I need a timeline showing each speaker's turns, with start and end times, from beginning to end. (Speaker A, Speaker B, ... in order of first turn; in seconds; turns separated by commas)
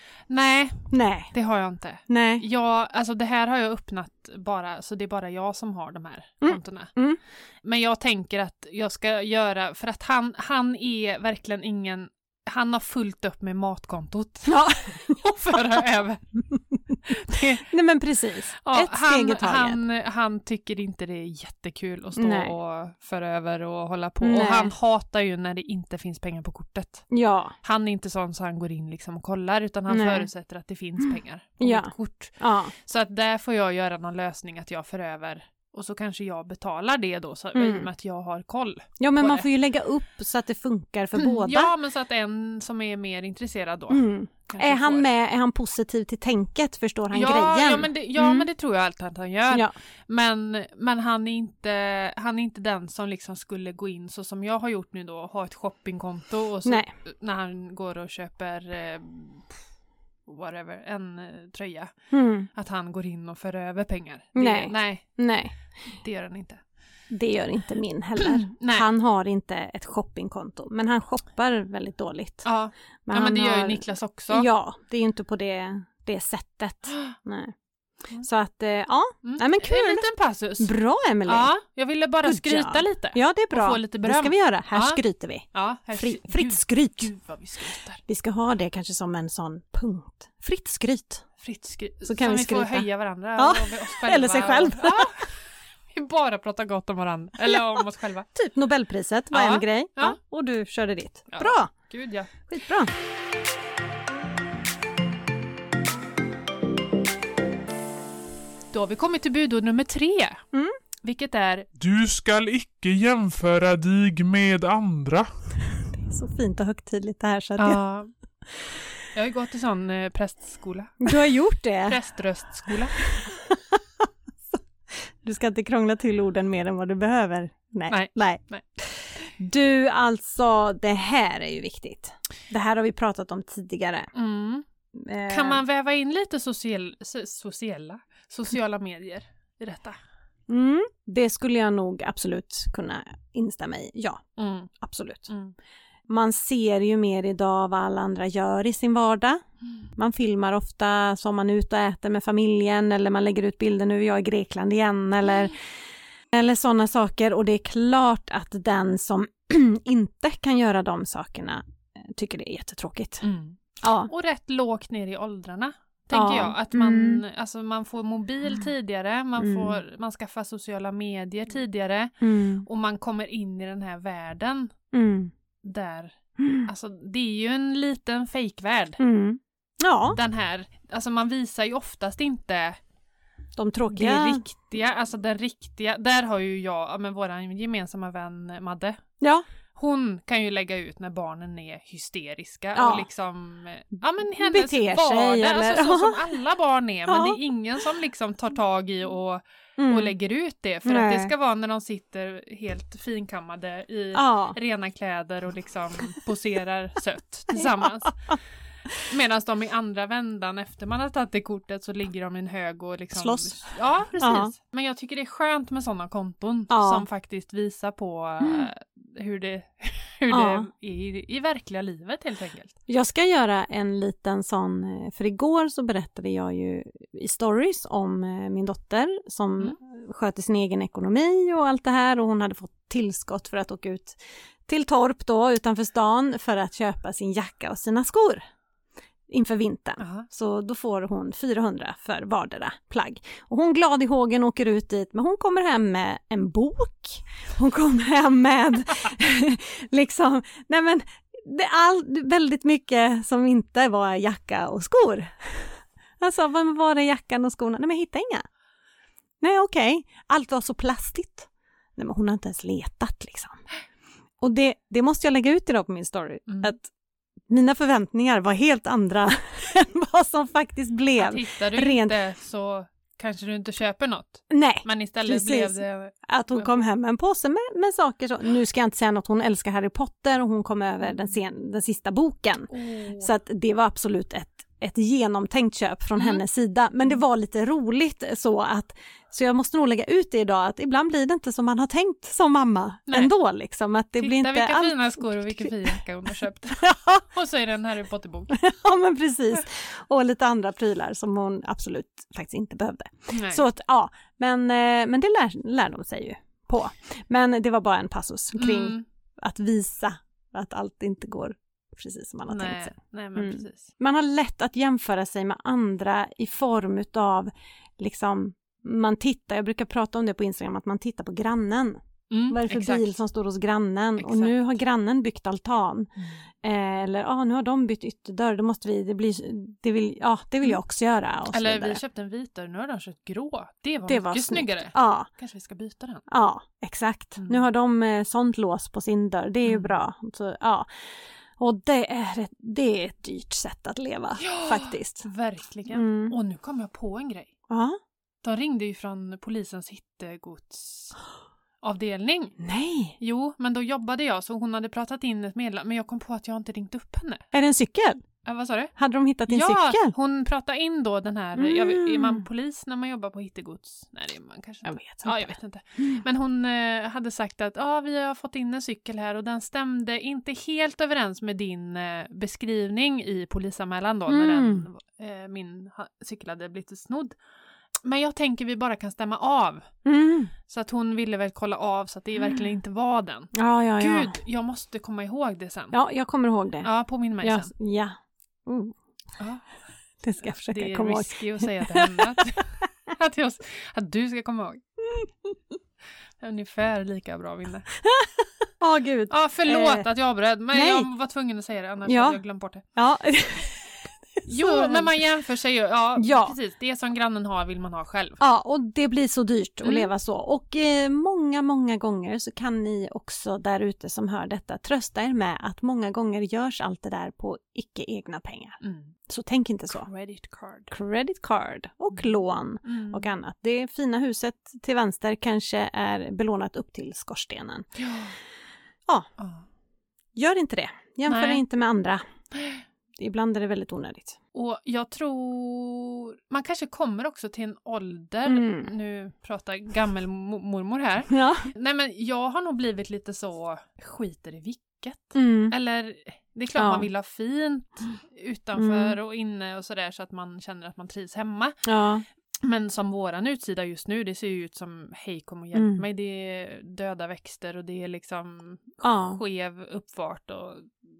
Speaker A: 0.3-6.9, Speaker B: 0.9-1.3, Speaker B: 2.1-2.4, Speaker B: 6.4-7.2, Speaker A: 7.6-16.2, Speaker B: 14.5-15.8, Speaker A: 17.0-17.6, Speaker B: 17.3-19.8, Speaker A: 18.6-27.1, Speaker B: 22.2-22.5, Speaker B: 24.2-24.7, Speaker B: 27.1-27.5, Speaker A: 27.6-39.5, Speaker B: 29.9-30.3, Speaker B: 31.6-32.7, Speaker B: 37.5-37.9, Speaker B: 39.0-41.7, Speaker A: 41.1-45.1, Speaker B: 43.9-48.5, Speaker A: 47.1-59.6, Speaker B: 56.6-56.9, Speaker A: 60.2-61.9, Speaker B: 62.1-62.5, Speaker A: 62.5-65.2, Speaker B: 64.3-65.5, Speaker A: 66.0-66.6, Speaker B: 67.1-72.5, Speaker A: 68.2-68.8, Speaker A: 72.4-74.5, Speaker B: 73.0-77.5, Speaker B: 78.2-80.0, Speaker A: 79.2-80.7, Speaker B: 80.6-81.5, Speaker A: 81.2-85.0, Speaker B: 82.2-87.1, Speaker A: 85.5-88.0, Speaker B: 88.0-91.2, Speaker A: 91.4-95.3, Speaker B: 92.0-95.2, Speaker A: 95.9-98.3, Speaker B: 98.3-101.7, Speaker A: 99.3-100.2, Speaker A: 101.3-102.3, Speaker B: 102.5-102.9, Speaker A: 108.7-110.4, Speaker A: 111.0-111.7, Speaker C: 111.8-115.3, Speaker B: 115.9-117.8, Speaker A: 117.6-118.1, Speaker A: 119.1-121.2, Speaker B: 121.0-122.0, Speaker A: 121.9-122.9, Speaker B: 122.7-123.8, Speaker B: 125.2-134.1, Speaker A: 127.9-128.6, Speaker A: 134.1-134.7, Speaker B: 134.9-135.6, Speaker A: 135.3-140.0, Speaker B: 140.5-144.2, Speaker A: 144.4-144.7, Speaker B: 144.8-145.3, Speaker A: 145.3-145.5, Speaker B: 146.1-149.4, Speaker B: 149.9-155.6, Speaker B: 156.3-163.2, Speaker A: 163.2-174.7, Speaker B: 163.8-164.1, Speaker B: 166.1-167.2, Speaker B: 169.4-169.8, Speaker B: 172.2-172.6, Speaker B: 174.9-175.3, Speaker A: 175.6-179.0, Speaker B: 176.4-176.7, Speaker B: 179.0-180.2, Speaker A: 180.1-182.8, Speaker B: 183.6-184.4, Speaker A: 183.9-189.0, Speaker A: 189.8-208.2, Speaker B: 192.7-193.1, Speaker B: 194.4-196.2, Speaker B: 197.1-197.4, Speaker B: 199.8-200.1, Speaker B: 200.8-201.3, Speaker B: 204.1-204.6, Speaker A: 209.1-222.7, Speaker B: 213.1-214.5, Speaker B: 216.7-217.1, Speaker B: 218.4-218.7, Speaker B: 220.3-220.7, Speaker B: 222.9-238.4, Speaker B: 239.3-258.4, Speaker A: 240.0-240.2, Speaker B: 259.4-263.6, Speaker B: 264.4-266.9, Speaker A: 266.5-266.7, Speaker B: 267.5-272.2, Speaker A: 271.2-276.8, Speaker B: 274.5-295.9, Speaker A: 282.7-283.3, Speaker A: 286.1-286.4, Speaker A: 294.2-298.6, Speaker B: 296.8-297.2, Speaker B: 298.5-326.1, Speaker A: 303.3-303.6, Speaker A: 308.6-309.0, Speaker A: 312.5-313.9, Speaker A: 322.3-323.2, Speaker A: 324.2-324.8, Speaker B: 326.6-332.0, Speaker A: 331.5-336.2, Speaker B: 334.1-335.3, Speaker B: 336.3-340.9, Speaker A: 339.6-339.9, Speaker B: 341.6-345.2, Speaker A: 344.4-347.5, Speaker B: 345.9-346.4, Speaker B: 347.7-348.0, Speaker A: 348.4-351.2, Speaker A: 351.8-352.6, Speaker B: 352.6-353.2, Speaker A: 353.2-357.5, Speaker B: 357.5-358.2, Speaker A: 358.4-358.9, Speaker B: 358.9-360.1, Speaker A: 359.5-377.4, Speaker B: 361.6-362.4, Speaker B: 364.8-366.2, Speaker B: 374.3-374.9, Speaker A: 378.0-379.9, Speaker B: 380.0-380.5, Speaker A: 380.7-385.9, Speaker B: 383.5-384.4, Speaker B: 385.9-386.9, Speaker A: 386.8-387.7, Speaker B: 387.4-388.9, Speaker A: 389.4-389.7, Speaker B: 390.2-392.3, Speaker A: 390.4-394.8, Speaker A: 396.4-397.9, Speaker B: 398.0-400.1, Speaker A: 399.3-402.8, Speaker B: 400.7-401.1, Speaker B: 402.1-402.4, Speaker B: 402.9-405.2, Speaker A: 404.5-408.4, Speaker B: 406.2-406.6, Speaker B: 408.4-420.1, Speaker A: 409.8-410.1, Speaker A: 418.8-419.1, Speaker A: 419.9-420.9, Speaker B: 420.9-427.9, Speaker A: 422.8-423.2, Speaker A: 428.0-428.3, Speaker A: 429.4-429.6, Speaker B: 430.3-432.2, Speaker A: 431.3-431.6, Speaker A: 432.5-432.8, Speaker B: 433.2-434.4, Speaker A: 434.5-451.8, Speaker B: 438.5-438.9, Speaker B: 441.3-441.7, Speaker B: 445.3-445.7, Speaker B: 446.8-447.1, Speaker B: 448.8-449.1, Speaker B: 451.8-452.2, Speaker A: 452.6-460.9, Speaker B: 455.7-456.0, Speaker B: 459.0-459.4